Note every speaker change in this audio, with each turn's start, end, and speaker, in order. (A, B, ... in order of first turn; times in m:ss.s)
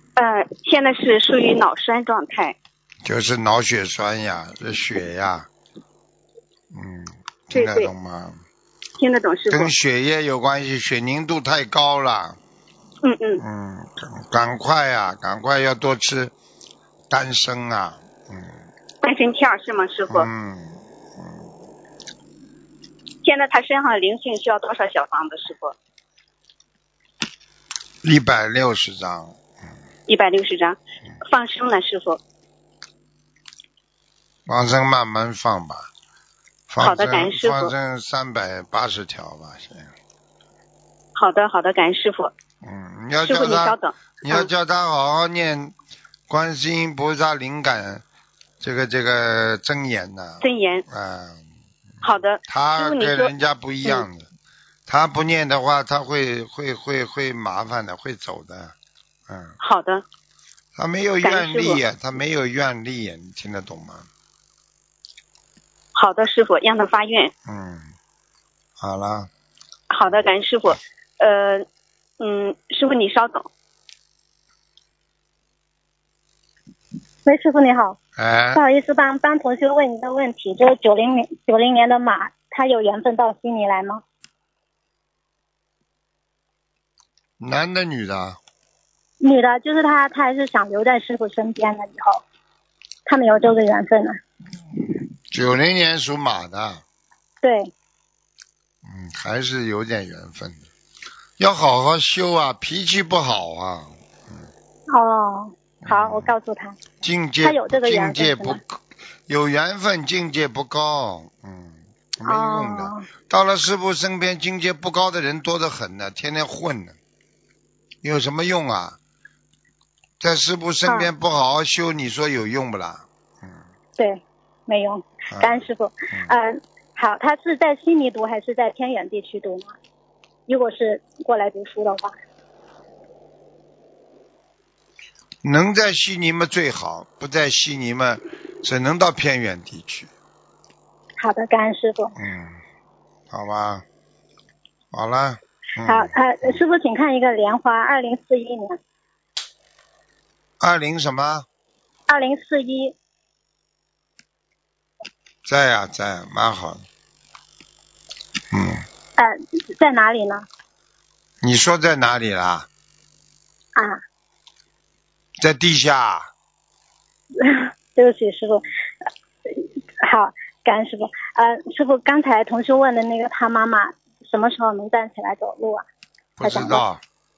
0:00.2-0:02.6 A
0:03.0-0:05.5 B
0:06.7-0:08.4 B
0:07.5-0:07.9 A
0:09.0-0:09.7 A
0:09.5-0:12.4 B
0:13.0-0:13.4 A
0:13.4-0:16.3 B
0:17.1-0:18.6 B
0:19.0-0:20.3 A
0:20.1-0:21.4 B
0:23.2-0:25.8 A
0:28.0-0:29.4 B
0:30.1-0:32.2 A
0:34.5-0:35.9 B
0:36.7-0:39.9 B
0:36.8-0:37.7 A
0:41.2-0:42.3 A
0:42.6-0:45.8 B
0:43.2-0:44.5 A
0:46.3-0:48.0 B
0:48.6-0:51.4 B
0:50.4-0:50.8 A
0:52.0-0:54.3 B
0:52.0-0:53.3 A
0:54.9-0:58.7 B
0:59.3-0:59.6 B
0:59.6-1:00.0 A
1:00.8-1:04.1 B
1:01.2-1:01.8 A
1:06.0-1:07.3 A
1:07.5-1:07.9 B
1:08.8-1:09.3 B
1:09.9-1:11.7 A
1:12.2-1:13.5 A
1:17.2-1:18.0 C
1:18.2-1:18.6 B
1:18.5-1:24.0 C
1:27.4-1:28.4 B
1:29.2-1:32.2 C
1:33.1-1:34.2 C
1:35.3-1:36.8 B
1:37.4-1:37.7 C
1:38.8-1:40.6 B
1:41.4-1:44.5 B
1:44.9-1:46.8 C
1:45.8-1:46.3 B
1:47.0-1:57.0 B
1:47.4-1:48.6 C
1:52.2-1:53.1 C
1:58.0-1:59.0 B
2:00.2-2:03.6 B
2:04.0-2:09.8 C
2:05.3-2:06.3 B
2:10.5-2:12.1 C
2:15.4-2:20.1 B
2:21.2-2:22.2 C
2:22.2-2:22.6 B
2:23.3-2:23.8 B
2:24.9-2:26.6 B
2:25.9-2:28.8 C
2:30.6-2:31.5 B
2:32.1-2:33.0 C
2:35.5-2:36.8 B
2:38.5-2:38.8 B
2:39.2-2:40.5 C
2:41.4-2:42.7 B
2:43.8-2:44.0 C
2:45.4-2:46.3 B
2:47.4-2:48.6 C
2:49.5-2:55.8 C
2:56.4-2:57.0 B
2:56.4-2:56.8 C